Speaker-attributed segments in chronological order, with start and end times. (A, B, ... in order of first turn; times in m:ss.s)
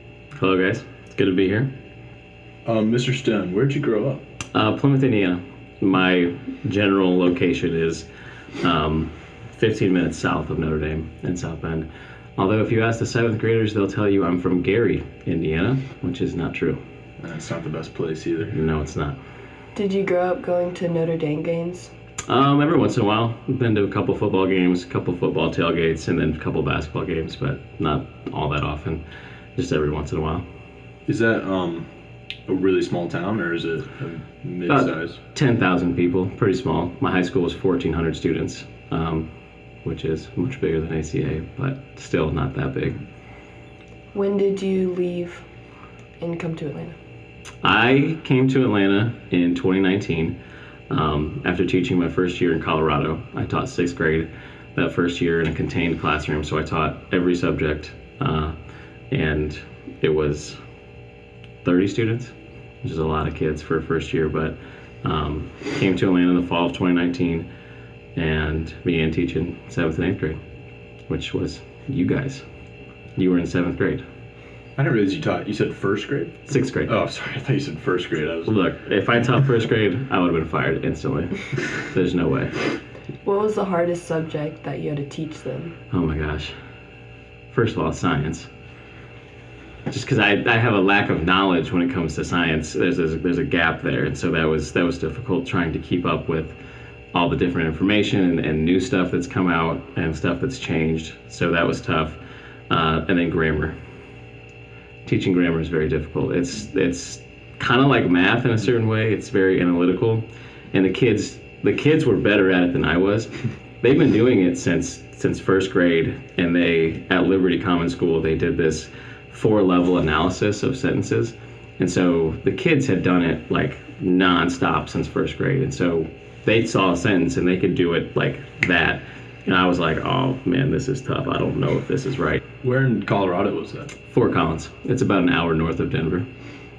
0:00.4-0:01.7 A
0:02.6-0:04.2 B
0:04.5-0:08.1 A
0:08.6-0:16.8 A
0:17.2-0:18.6 B
0:18.5-0:19.2 A
0:19.7-0:21.9 C
0:22.2-0:29.0 A
0:29.6-0:30.4 A
0:31.0-0:31.8 B
0:32.5-0:35.2 B
0:34.7-0:39.3 A
0:39.8-0:43.0 A
0:44.1-0:45.4 C
0:46.2-0:47.0 C
0:47.6-0:50.4 A
0:50.9-0:58.5 A
0:59.1-1:00.6 A
1:01.6-1:07.4 A
1:08.1-1:10.4 A
1:11.1-1:12.4 A
1:13.2-1:14.0 A
1:14.8-1:18.6 B
1:16.5-1:16.9 A
1:18.4-1:22.5 A
1:23.2-1:25.8 C
1:25.9-1:26.5 A
1:27.5-1:28.5 A
1:29.9-1:36.6 A
1:37.1-1:43.8 A
1:45.0-2:12.4 A
2:12.6-2:13.9 B
2:14.1-2:16.3 A